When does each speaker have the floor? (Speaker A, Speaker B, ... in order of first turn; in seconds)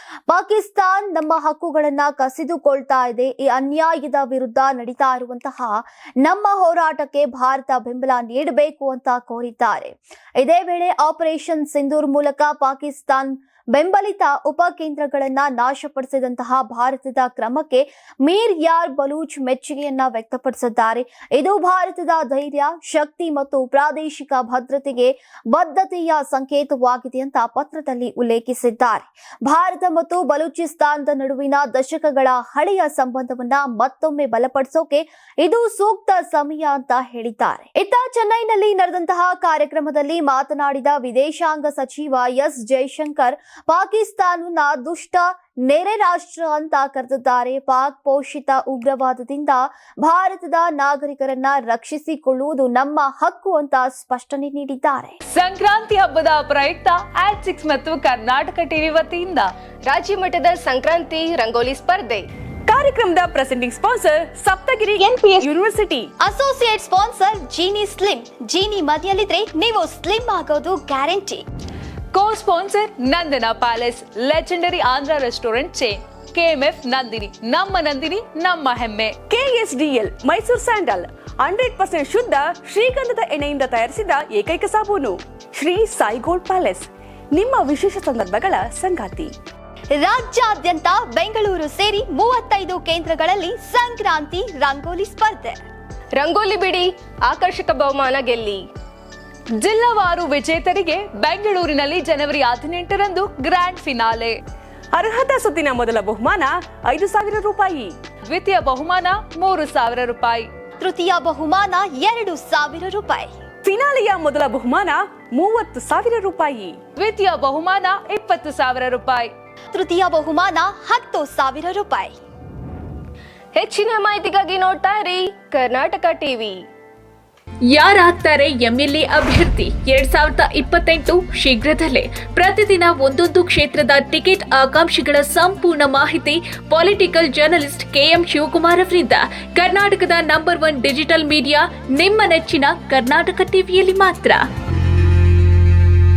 Speaker A: 0.3-55.2, 66.2-71.4, 90.0-95.6, 110.8-113.3, 119.7-122.1
Speaker B: 55.3-59.5, 72.1-79.2, 99.6-104.4, 108.3-110.5, 117.0-119.3
Speaker C: 59.8-62.3, 96.1-98.7, 123.5-126.7
Speaker D: 62.7-66.1, 79.3-89.3, 104.9-108.0, 113.6-116.8
Speaker E: 127.7-144.4